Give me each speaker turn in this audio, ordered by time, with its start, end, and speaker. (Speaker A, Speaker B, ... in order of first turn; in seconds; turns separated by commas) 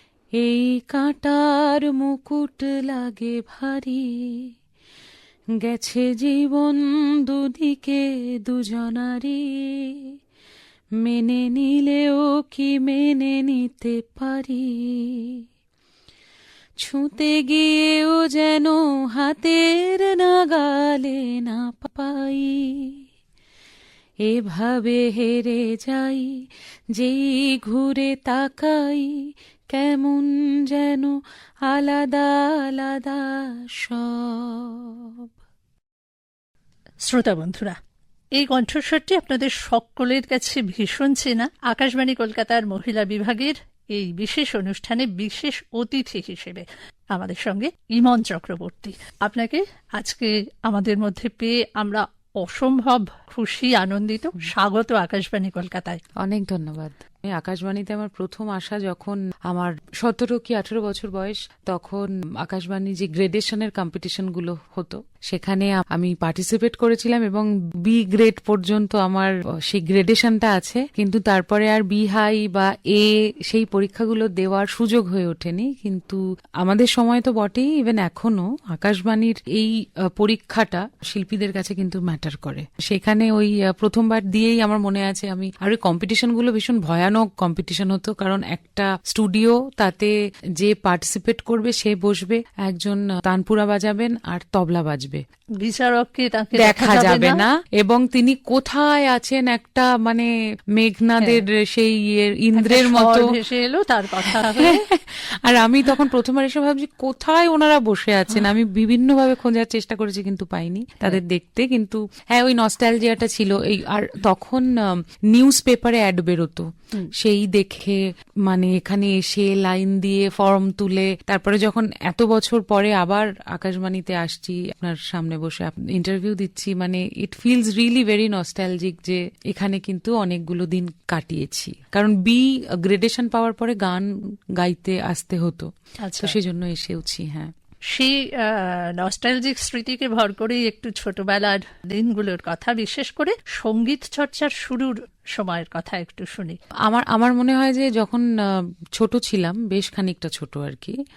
Speaker A: 0.4-4.5, Speaker A: 5.6-10.1, Speaker A: 11.0-15.4, Speaker A: 16.8-23.0, Speaker A: 24.2-26.4, Speaker A: 26.9-35.3, Speaker B: 37.0-37.8, Speaker B: 38.3-56.0, Speaker A: 56.2-95.2, Speaker B: 95.6-97.4, Speaker A: 96.6-103.3, Speaker B: 102.5-104.8, Speaker A: 104.2-137.5, Speaker B: 136.0-136.3, Speaker B: 137.9-146.6, Speaker A: 146.8-151.0